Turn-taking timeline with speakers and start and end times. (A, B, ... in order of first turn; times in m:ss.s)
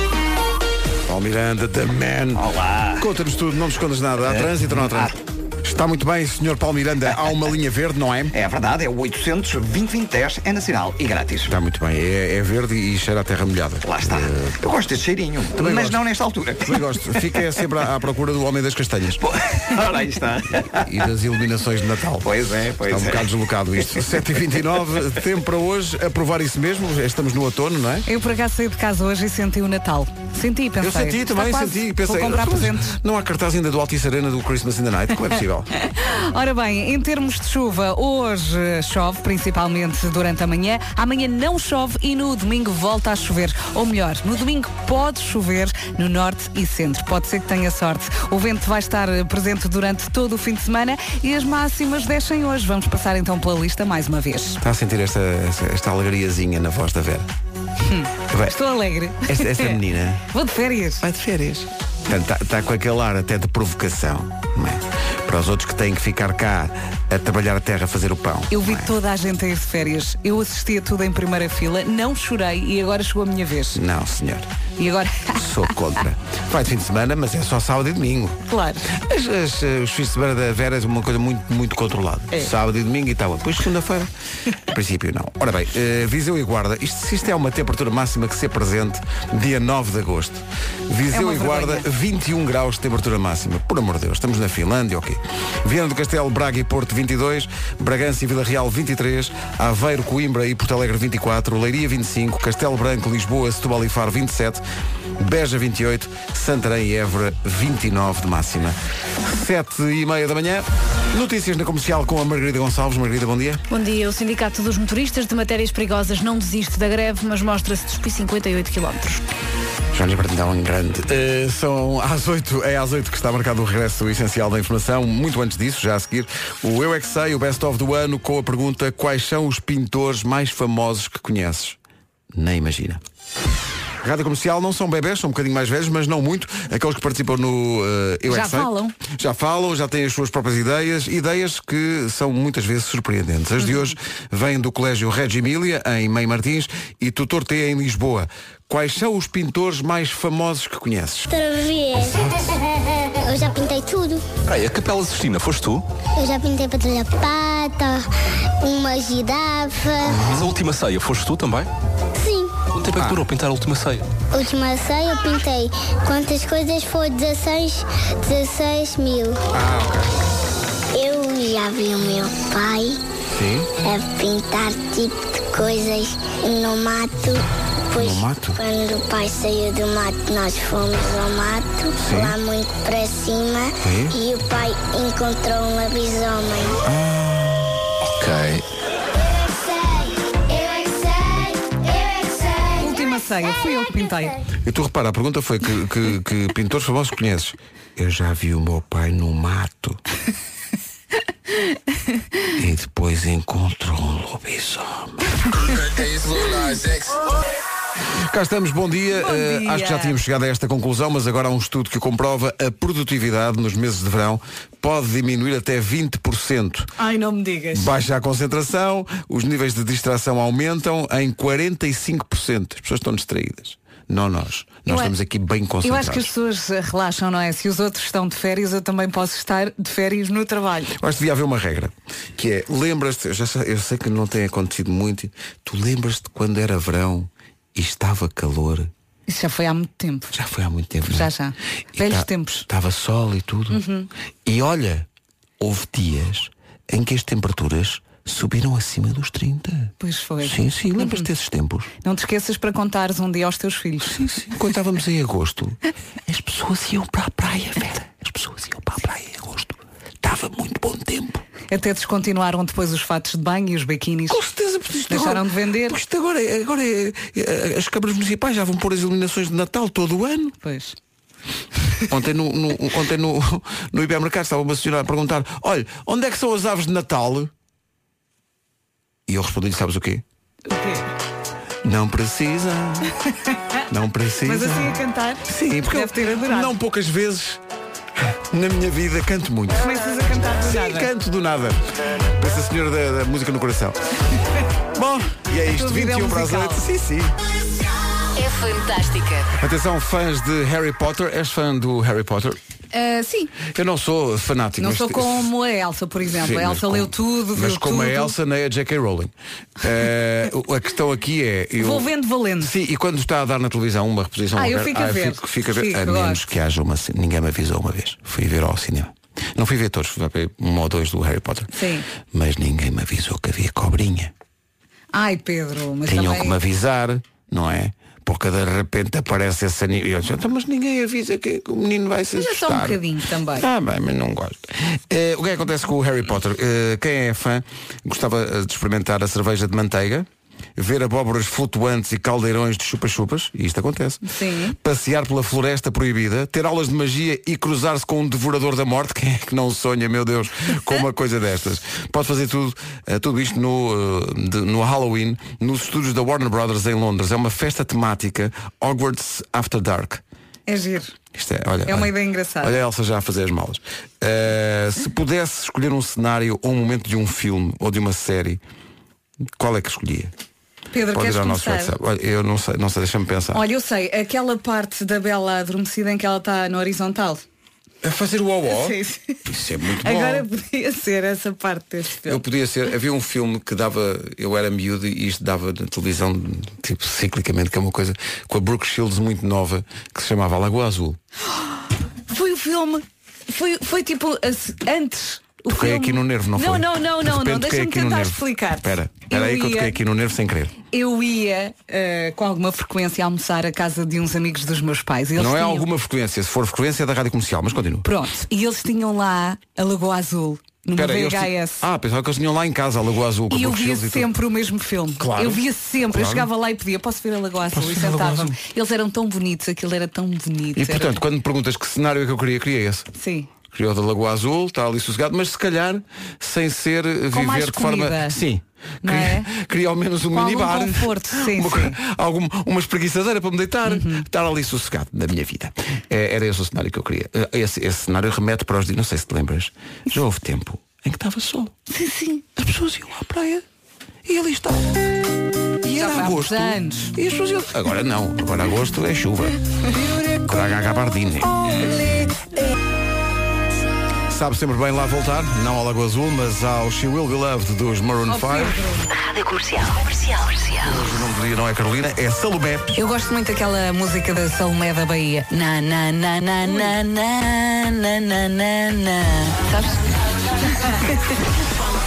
0:01.0-0:08.4 A
0:02.4-0:03.0 B
0:04.2-0:05.1 B
0:08.3-0:11.5 B
0:11.4-0:14.6 A
0:13.8-0:17.5 B
0:15.5-0:16.0 A
0:16.6-0:19.2 A
0:19.2-0:21.0 B
0:20.8-0:28.1 A
0:22.2-0:24.6 B
0:28.1-0:33.0 C
0:30.8-0:35.7 A
0:35.7-0:54.6 C
0:54.6-0:57.3 A
0:57.8-0:59.8 C
0:58.3-0:58.6 A
0:59.2-1:00.2 A
1:00.3-1:01.0 C
1:01.0-1:08.9 A
1:08.5-1:13.8 C
1:13.7-1:14.5 A
1:14.8-1:15.5 C
1:15.4-1:24.1 A
1:18.5-1:18.9 C
1:24.6-1:44.6 A
1:31.1-1:31.8 C
1:45.2-1:53.6 A
1:53.7-1:59.2 D
1:59.9-2:11.8 A
2:12.3-2:13.0 A
2:14.0-2:31.3 A
2:18.3-2:19.0 C
2:23.6-2:23.9 C
2:31.3-2:34.2 E
2:32.0-2:32.5 A
2:34.4-2:35.8 F
2:36.2-2:38.1 E
2:38.6-2:40.2 E
2:40.1-2:40.5 A
2:40.2-2:41.7 F
2:42.2-2:42.6 E
2:42.7-2:44.1 F
2:44.3-2:49.4 E
2:49.5-2:50.1 A
2:50.9-2:53.0 E
2:53.3-2:53.7 A
2:53.8-3:06.8 E
2:57.9-2:58.6 A
3:02.0-3:02.4 A
3:03.8-3:04.2 A
3:06.8-3:08.6 A
3:12.8-3:14.4 C
3:14.6-3:20.0 A
3:22.5-3:25.2 A
3:28.2-3:36.9 A
3:29.1-3:30.2 C
3:37.0-3:37.9 C
3:37.7-3:46.3 A
3:44.9-3:45.1 C
3:45.8-3:50.9 C
3:50.9-3:58.9 A
3:59.3-4:00.3 C
4:00.3-4:01.3 A
4:01.1-4:02.7 C
4:01.9-4:03.8 A
4:03.7-4:04.1 C
4:04.4-4:05.1 A
4:05.6-4:11.9 A
4:10.0-4:11.3 C
4:12.0-4:14.2 C
4:14.1-4:21.4 A
4:21.7-4:24.4 C
4:24.3-4:30.6 A
4:25.1-4:26.0 C
4:30.6-4:31.0 C
4:32.1-4:37.5 A
4:39.3-4:40.2 A
4:40.7-4:41.1 C
4:41.8-4:43.1 A
4:43.5-4:43.8 C
4:43.9-4:47.6 A
4:44.4-4:46.7 C
4:48.3-4:54.0 A
4:49.8-4:51.1 C
4:54.9-4:57.3 A
4:55.6-4:56.8 C
4:58.3-4:59.5 G
4:59.6-5:02.6 A
5:02.9-5:03.5 C
5:03.6-5:05.5 A
5:04.8-5:08.3 C
5:06.3-5:12.1 A
5:11.8-5:12.7 C
5:12.6-5:24.3 A
5:14.6-5:16.4 C
5:21.7-5:22.1 C
5:25.1-5:26.6 C
5:26.1-6:00.2 A
5:32.3-5:33.7 C
5:44.2-5:44.8 C
6:00.7-6:01.1 C
6:01.3-6:08.6 A
6:01.8-6:02.8 C
6:09.6-6:10.3 A
6:10.9-6:11.9 C
6:11.1-6:13.6 A
6:13.5-6:17.4 C
6:18.0-6:20.5 A
6:18.7-6:19.4 C
6:20.0-6:22.4 C
6:22.2-6:31.2 A
6:32.3-6:40.0 C
6:35.7-6:40.7 A
6:40.9-6:45.9 C
6:45.4-6:48.1 A
6:48.0-6:51.8 C
6:50.9-6:54.3 A
6:53.5-7:01.2 C
6:55.2-6:56.5 A
6:57.7-6:58.6 A
7:00.7-7:03.1 A
7:03.2-7:03.5 C
7:03.7-7:21.7 A
7:07.3-7:08.4 C
7:09.0-7:09.5 C
7:10.3-7:12.0 C
7:13.8-7:14.2 C
7:21.9-7:22.5 C
7:22.6-7:23.6 A
7:24.2-7:25.1 A
7:25.8-7:29.6 A
7:25.9-7:27.1 C
7:30.2-7:31.9 A
7:34.3-7:38.8 A
7:38.3-7:39.1 C
7:39.1-7:40.9 G
7:40.8-7:42.9 A
7:42.9-7:50.1 C
7:50.7-7:51.2 C